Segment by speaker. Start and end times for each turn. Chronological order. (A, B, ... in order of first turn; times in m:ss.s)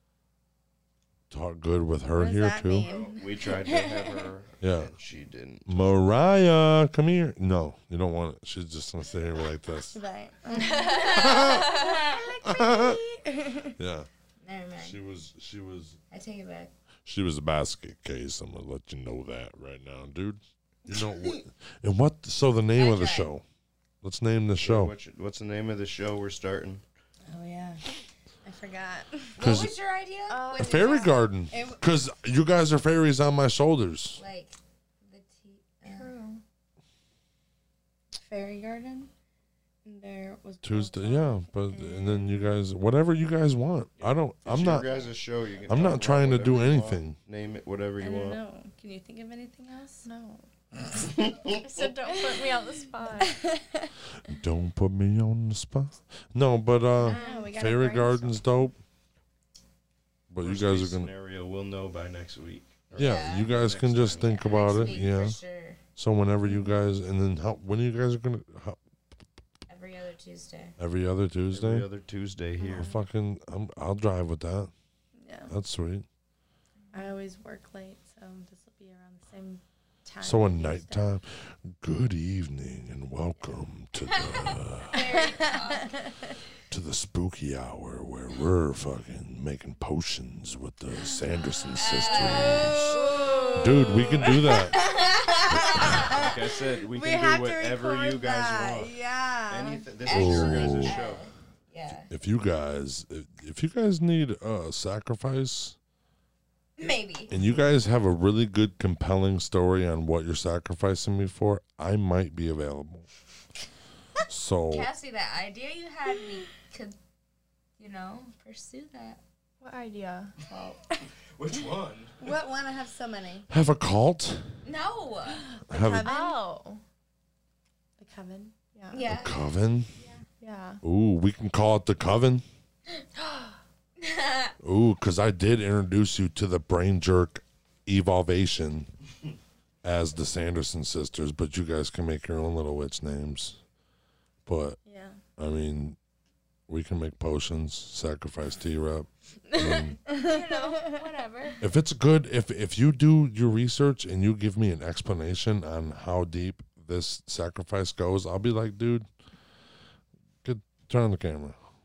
0:01.3-0:02.9 A
0:02.1-0:04.3 B
0:02.8-0:05.9 C
0:04.6-0:04.9 A
0:05.7-0:10.0 A
0:09.9-0:13.8 B
0:10.5-0:12.0 D
0:10.9-0:11.9 E
0:11.0-0:11.7 A
0:12.4-0:13.0 A
0:13.8-0:14.1 A
0:14.4-0:15.0 E
0:14.8-0:16.0 A
0:16.1-0:16.7 E
0:17.0-0:23.4 A
0:22.8-0:23.3 E
0:24.0-0:24.9 A
0:24.6-0:26.8 C
0:27.3-0:27.8 B
0:28.4-0:29.4 B
0:29.4-0:31.2 E
0:29.4-0:29.7 A
0:30.3-0:31.1 D
0:30.5-0:34.2 A
0:31.5-0:31.8 B
0:34.2-0:36.1 E
0:35.9-0:36.4 D
0:38.2-0:39.1 B
0:39.8-0:42.3 B
0:40.6-0:44.9 A
0:44.0-0:48.4 C
0:45.6-0:47.2 A
0:48.0-0:50.1 B
0:50.0-0:50.4 D
0:51.0-0:51.9 C
0:51.5-0:53.4 D
0:52.1-0:52.4 B
0:53.2-0:53.9 B
0:54.2-0:58.8 A
0:57.0-0:57.5 E
0:57.0-0:58.4 B
1:00.3-1:01.1 A
1:00.4-1:05.1 C
1:02.9-1:05.4 A
1:03.0-1:03.5 E
1:04.2-1:05.8 E
1:06.0-1:08.8 A
1:06.5-1:06.7 B
1:09.7-1:10.8 E
1:10.8-1:11.9 A
1:11.5-1:12.9 C
1:12.6-1:12.9 B
1:12.7-1:14.7 A
1:15.2-1:15.5 B
1:15.5-1:16.0 A
1:16.9-1:21.1 B
1:20.2-1:25.0 A
1:24.1-1:26.1 E
1:24.9-1:26.4 B
1:26.7-1:33.0 A
1:31.8-1:36.3 E
1:32.0-1:33.0 B
1:33.1-1:33.8 D
1:33.5-1:34.8 A
1:34.2-1:39.8 B
1:35.5-1:36.1 A
1:36.1-1:38.9 C
1:39.5-1:41.3 C
1:40.0-1:42.1 E
1:40.1-1:41.0 A
1:42.1-1:45.8 A
1:46.8-1:47.3 E
1:47.3-1:53.1 A
1:54.3-1:54.9 A
1:54.7-1:57.0 E
1:57.8-1:59.2 E
1:59.6-2:00.3 D
2:00.4-2:00.8 E
2:01.3-2:02.2 C
2:02.2-2:03.5 B
2:03.5-2:04.5 A
2:04.6-2:05.5 E
2:05.6-2:06.4 B
2:05.7-2:06.1 A
2:06.0-2:06.8 D
2:08.0-2:08.5 B
2:08.7-2:09.0 D
2:08.9-2:09.4 E
2:09.1-2:09.9 A
2:10.4-2:10.8 D
2:10.8-2:12.4 A
2:13.2-2:13.5 D
2:14.0-2:14.5 E
2:14.6-2:18.9 A
2:19.8-2:23.6 A
2:24.4-2:24.8 A
2:24.8-2:25.2 B
2:25.4-2:26.0 A
2:26.7-2:30.0 A
2:29.5-2:31.6 E
2:30.1-2:31.0 B
2:31.6-2:39.1 A
2:40.4-2:41.6 A